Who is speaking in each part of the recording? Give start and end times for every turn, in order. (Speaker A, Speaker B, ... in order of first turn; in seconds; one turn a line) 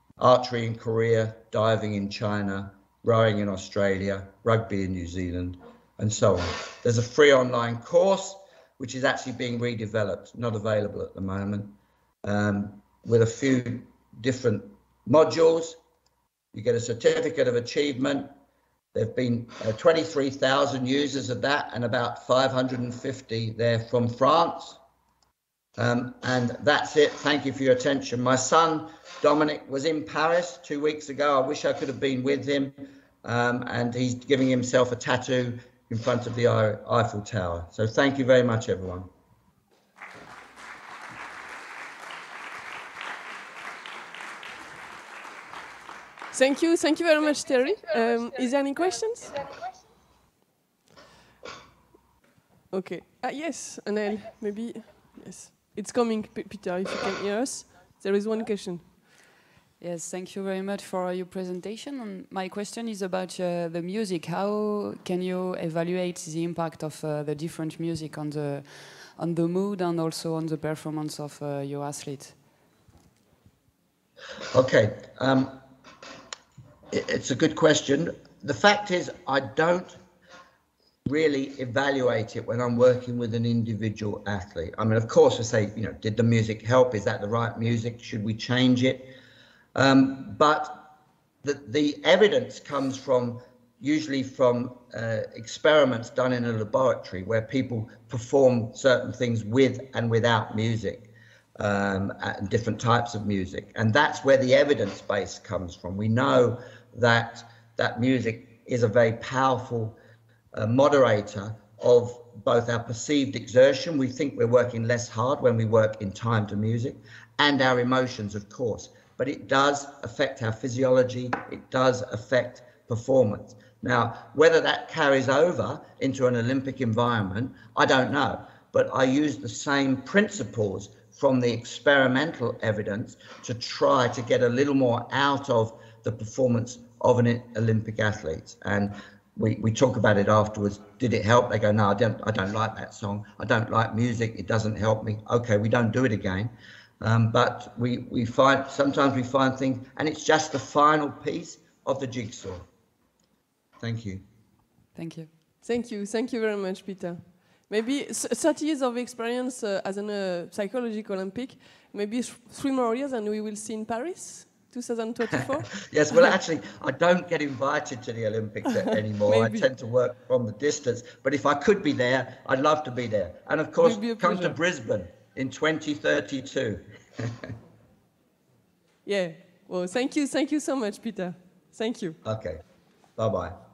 Speaker A: 0.2-15.8
Speaker A: 16.5-18.3
Speaker A: 18.9-24.8
Speaker A: 25.8-39.1
Speaker B: 46.3-49.4
Speaker B: 52.7-58.9
Speaker C: 59.8-72.4
Speaker A: 74.5-75.6
Speaker A: 76.9-80.0
Speaker A: 81.0-89.1
Speaker A: 89.7-90.8
Speaker A: 91.4-110.0
Speaker A: 110.5-152.6
Speaker A: 153.8-154.2
Speaker C: 154.9-155.3
Speaker B: 155.6-166.3
Speaker A: 165.8-177.3
Speaker B: 169.3-169.7
Speaker B: 173.8-174.6
Speaker B: 179.0-182.2
Speaker A: 182.2-182.6
Speaker A: 183.2-183.6